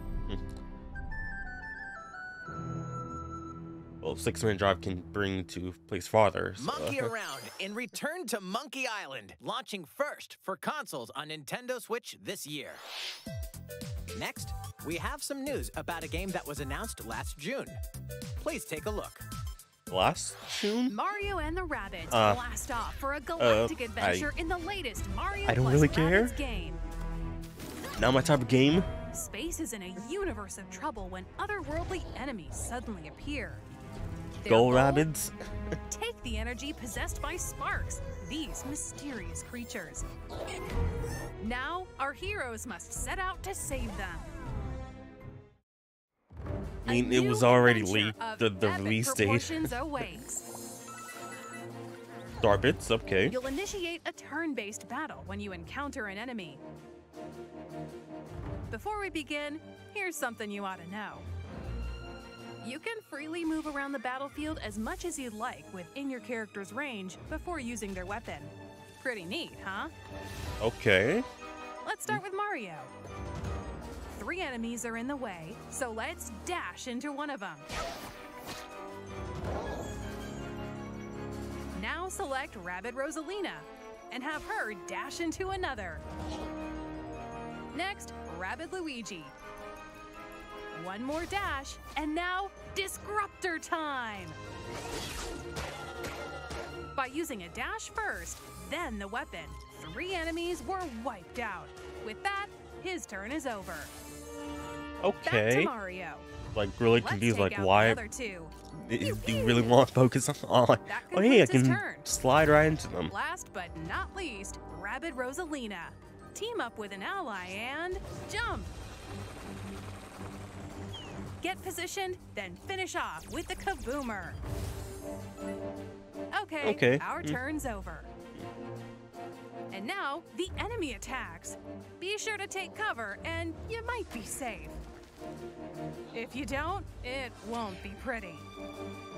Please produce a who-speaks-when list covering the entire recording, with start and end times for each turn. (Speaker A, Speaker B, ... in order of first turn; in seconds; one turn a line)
Speaker A: 4.0-7.1
Speaker B: 6.6-12.8
Speaker B: 14.1-17.8
Speaker B: 18.4-19.2
Speaker A: 19.9-21.0
Speaker C: 20.9-26.8
Speaker A: 22.1-22.4
Speaker A: 23.4-24.3
Speaker A: 25.4-26.4
Speaker A: 27.9-28.9
Speaker C: 29.1-33.6
Speaker C: 34.4-35.1
Speaker A: 34.5-35.8
Speaker C: 35.9-40.0
Speaker C: 41.4-44.3
Speaker A: 46.8-49.7
Speaker C: 46.9-50.4
Speaker A: 52.4-53.4
Speaker C: 53.3-56.6
Speaker C: 58.7-61.3
Speaker C: 62.6-69.9
Speaker A: 70.6-71.2
Speaker C: 71.8-72.9
Speaker C: 74.1-77.7
Speaker C: 81.7-86.0
Speaker C: 87.7-89.3
Speaker C: 90.7-94.4
Speaker C: 96.9-103.9
Speaker A: 105.0-105.7
Speaker C: 105.2-106.3
Speaker A: 106.5-108.0
Speaker C: 107.0-109.7
Speaker A: 108.7-113.1
Speaker C: 110.9-112.1
Speaker C: 113.1-118.7
Speaker C: 121.4-124.4
Speaker C: 126.3-128.1
Speaker A: 126.6-127.4
Speaker C: 129.7-134.8
Speaker C: 136.1-138.4